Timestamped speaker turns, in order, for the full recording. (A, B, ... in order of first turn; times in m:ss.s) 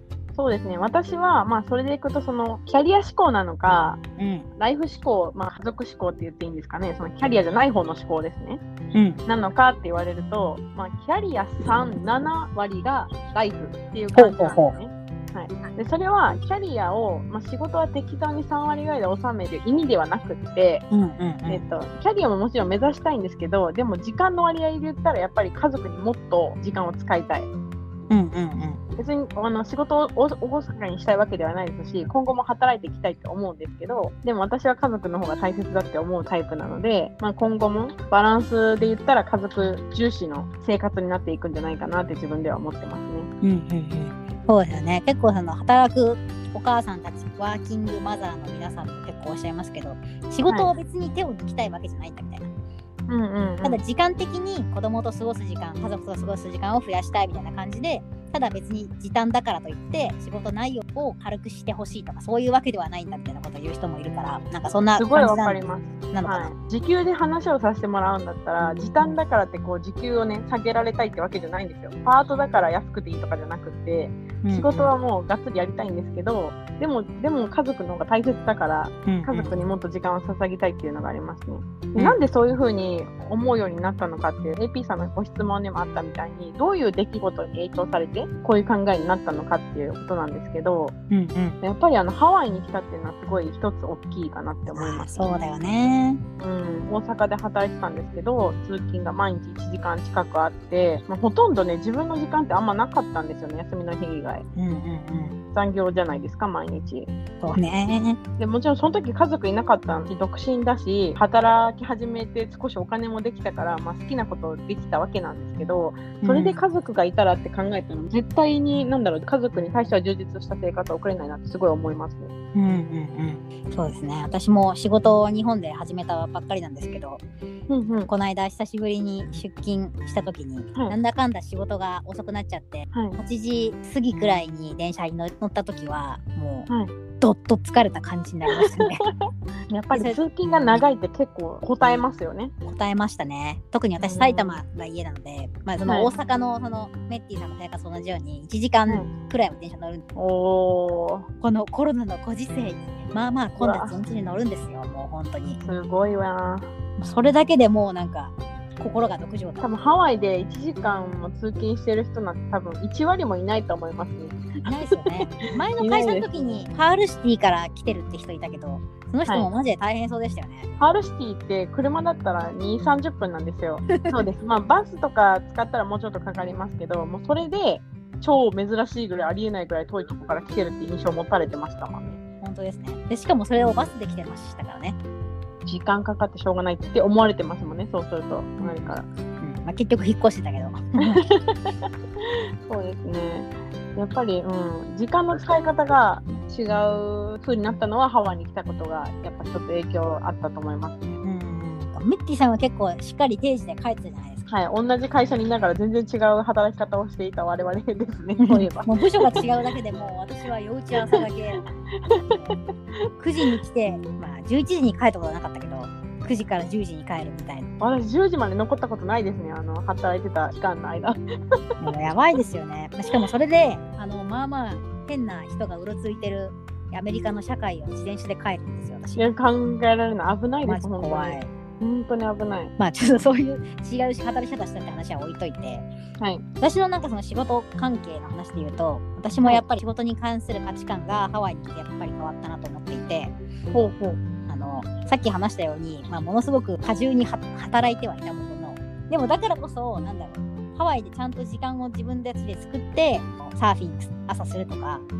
0:00.4-0:04.0 A
0:04.2-0:04.4 B
0:04.6-0:08.6 A
0:08.9-0:09.2 B
0:09.2-0:20.8 A
0:11.6-0:12.0 B
0:14.2-0:14.7 B
0:20.9-0:21.6 B
0:21.5-0:27.5 A
0:28.1-0:28.8 B
0:29.0-0:43.3 A
0:43.4-0:52.5 B
0:53.1-0:53.8 A
0:53.6-1:06.5 B
1:05.0-1:30.9 A
1:08.6-1:09.2 B
1:14.4-1:14.9 B
1:19.0-1:19.6 B
1:31.1-1:31.6 B
1:31.6-1:35.1 A
1:34.7-1:36.2 B
1:36.4-1:44.4 A
1:44.6-1:45.4 B
1:45.5-1:47.1 A
1:47.4-1:48.2 B
1:48.4-2:02.3 A
1:56.2-1:56.6 B
2:02.5-2:07.2 B
2:07.7-2:08.1 A
2:08.0-2:16.7 B
2:12.9-2:13.2 A
2:17.2-2:19.0 B
2:18.6-2:19.0 A
2:19.7-2:22.5 A
2:19.9-2:20.2 B
2:22.6-2:30.0 B
2:24.0-2:24.6 A
2:25.8-2:26.1 A
2:30.2-2:31.3 A
2:31.4-2:35.6 B
2:33.6-2:34.0 A
2:35.6-2:36.7 A
2:37.0-2:39.7 B
2:39.6-2:45.1 A
2:44.6-2:50.7 B
2:45.8-2:46.6 A
2:50.8-3:02.0 A
3:02.4-3:05.0 B
3:03.6-3:03.9 A
3:05.6-3:09.0 A
3:08.6-3:11.2 B
3:11.1-3:21.0 A
3:21.0-3:24.5 B
3:24.5-3:29.4 A
3:28.4-3:31.6 B
3:32.1-3:32.5 A
3:33.2-3:37.7 B
3:37.8-3:41.2 A
3:41.8-3:49.3 B
3:49.2-3:52.7 A
3:50.6-3:51.5 B
3:52.8-3:55.8 B
3:56.2-3:56.4 A
3:56.6-4:03.3 B
4:03.7-4:04.2 A
4:04.5-4:15.0 B